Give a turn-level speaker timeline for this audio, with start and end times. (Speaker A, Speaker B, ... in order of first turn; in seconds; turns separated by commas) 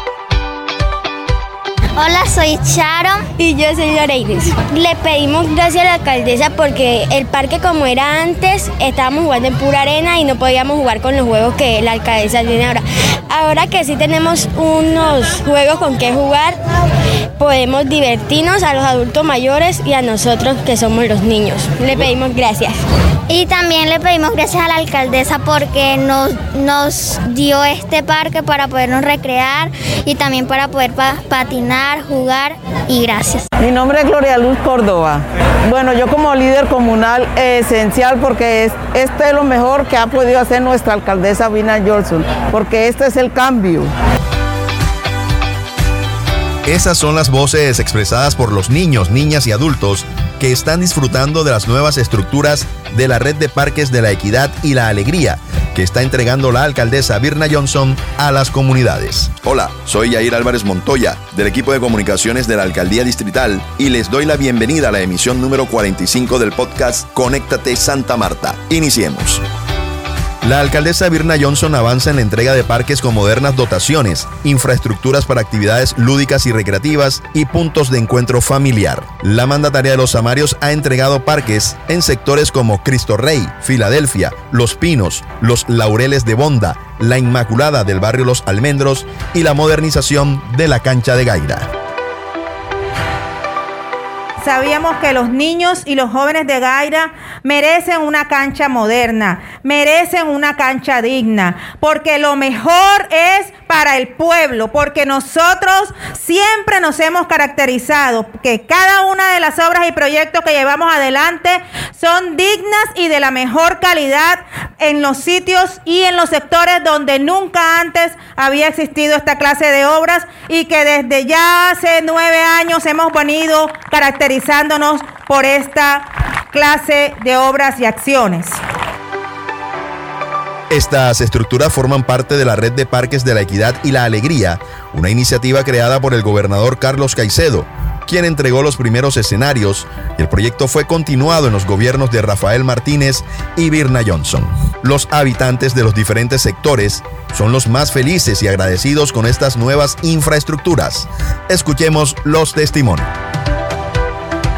Speaker A: 2.0-3.3, Speaker B: 3.4-16.6, Speaker B: 17.4-22.8, Speaker A: 23.3-33.5, Speaker C: 33.6-43.9, Speaker D: 46.7-69.4, Speaker D: 70.4-91.7, Speaker E: 94.4-128.6, Speaker D: 130.7-153.1